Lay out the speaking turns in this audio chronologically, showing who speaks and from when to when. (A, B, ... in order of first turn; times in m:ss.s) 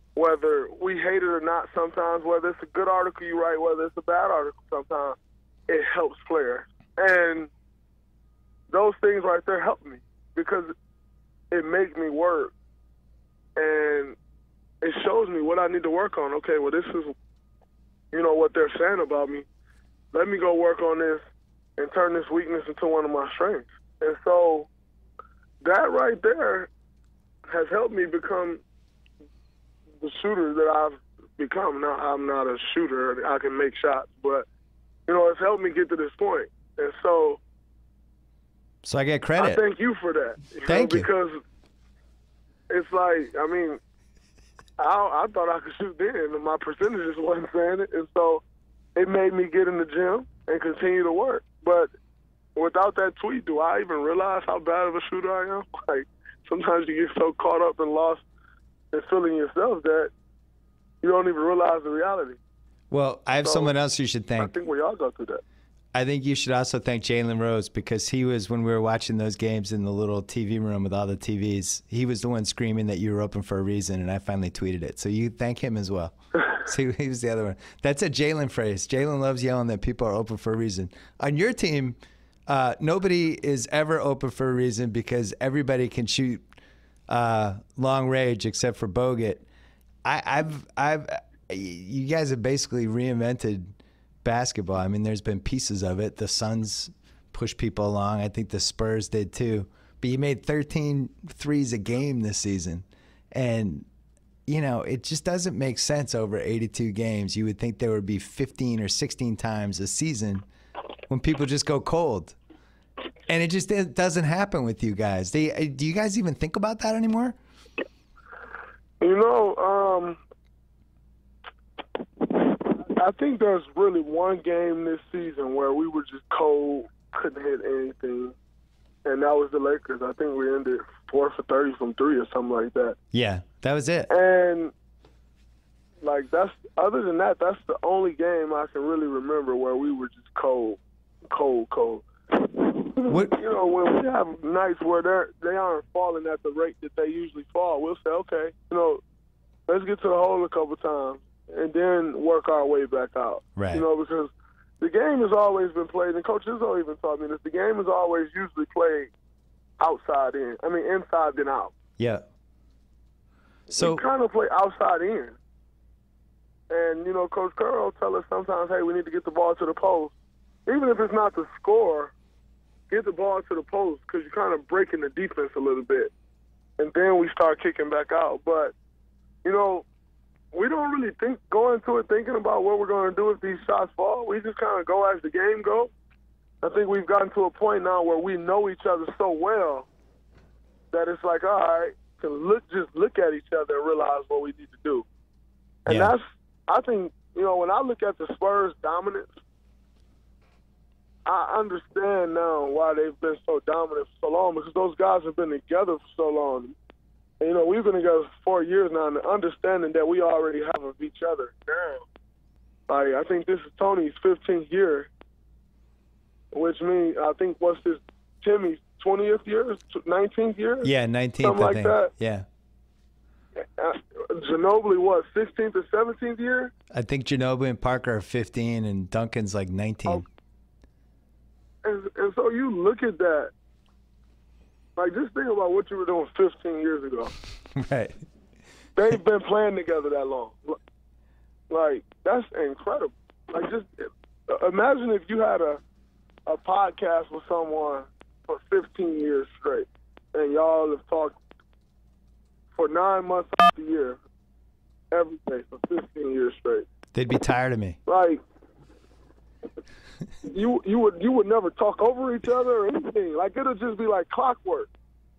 0:00.1-0:05.2 A
0:05.7-0:07.5 A
0:08.7-0:10.7 A
0:11.5-0:12.5 A
0:13.6-0:14.2 A
0:14.8-0:17.1 A
0:18.1-0:19.4 A
0:20.1-0:21.2 A
0:21.8-0:24.7 A
0:25.6-0:26.7 A
0:27.5-0:28.6 A
0:30.0-0:34.4 A
0:35.1-0:37.4 A
0:38.8-0:39.6 B
0:39.4-0:41.4 A
0:40.7-0:41.1 B
0:42.7-0:43.8 A
0:44.8-0:48.4 A
0:49.0-0:51.9 A
0:52.6-0:58.2 A
0:58.9-1:00.1 A
1:01.0-1:02.4 A
1:02.9-1:04.5 B
1:03.4-1:03.7 A
1:04.4-1:05.4 A
1:05.9-1:22.0 B
1:22.5-1:26.4 B
1:27.1-1:29.4 B
1:30.0-1:33.7 B
1:34.2-1:43.9 B
1:44.5-1:50.4 B
1:51.1-1:52.4 B
1:53.3-1:57.4 B
1:59.0-2:00.2 A
2:02.2-2:08.3 A
2:09.0-2:13.0 A
2:13.1-2:14.1 B
2:14.1-2:14.7 A
2:16.0-2:29.0 A
2:23.1-2:23.4 B
2:29.7-2:39.1 A
2:33.6-2:33.8 B
2:39.8-2:41.8 A
2:42.0-2:42.2 B
2:43.7-2:45.4 A
2:43.7-2:44.0 B
2:46.7-2:50.1 A
2:50.7-2:52.1 A
2:52.9-2:56.1 A
2:56.8-2:58.7 A
2:59.4-2:59.8 A
3:00.5-3:05.9 A
3:06.6-3:09.9 A
3:10.9-3:15.0 A
3:15.8-3:19.4 A
3:15.9-3:16.1 B
3:21.2-3:26.8 A
3:27.4-3:32.1 A
3:32.9-3:35.1 A
3:36.5-3:40.9 A
3:40.8-3:42.4 B
3:41.4-3:42.1 A
3:43.6-3:46.7 A
3:46.9-3:50.2 B
3:51.8-3:53.5 A
3:55.0-3:57.3 A
3:57.8-3:58.2 B
3:59.0-4:00.8 A
4:01.7-4:05.8 A
4:06.5-4:11.4 A
4:12.7-4:14.2 A
4:15.1-4:16.9 A
4:17.1-4:18.0 B
4:18.1-4:18.4 A
4:20.4-4:24.9 A